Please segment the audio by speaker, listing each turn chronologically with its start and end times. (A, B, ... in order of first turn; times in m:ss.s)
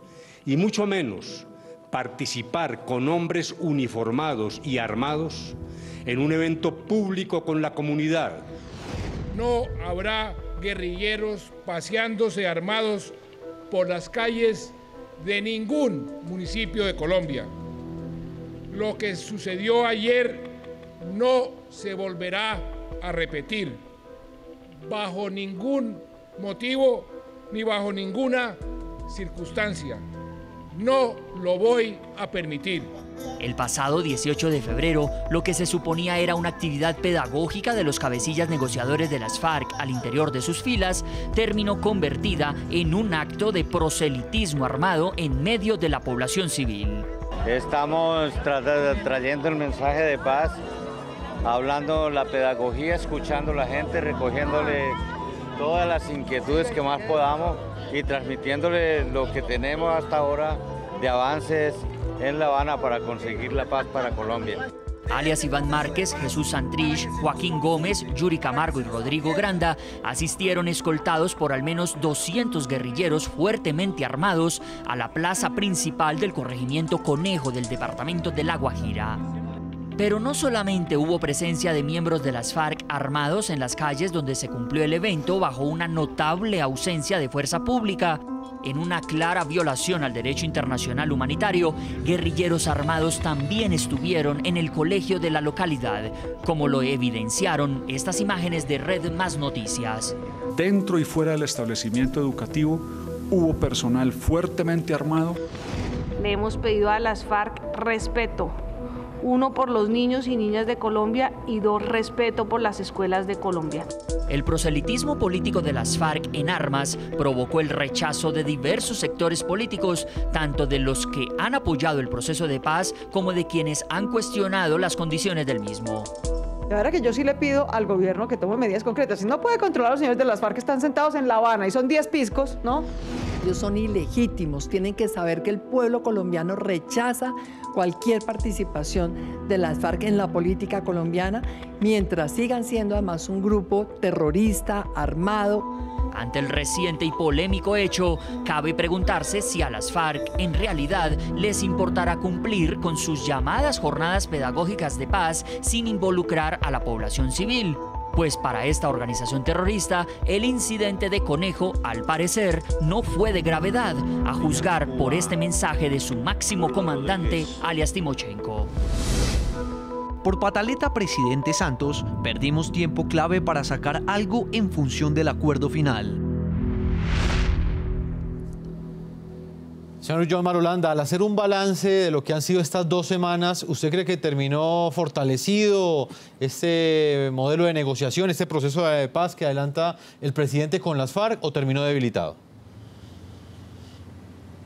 0:00.4-0:08.5 A
0:09.3-0:13.1 B
0:13.7-0:17.5 B
0:18.7-0:20.5 B
0:21.1-0:23.8 B
0:24.9-0:28.5 B
0:29.1-0:30.0 B
0:30.8-0:32.9 B
0:33.4-0:47.1 C
0:47.4-0:50.6 D
0:51.4-0:55.0 D
0:55.6-1:04.6 D
1:05.1-1:19.2 C
1:20.0-1:40.1 C
1:40.6-1:45.4 E
1:46.2-1:48.5 F
1:49.2-1:53.9 F
1:54.3-2:06.1 C
2:06.7-2:12.8 G
2:13.4-2:25.7 H
2:26.1-2:48.7 C
2:50.2-2:56.2 I
3:00.0-3:12.4 J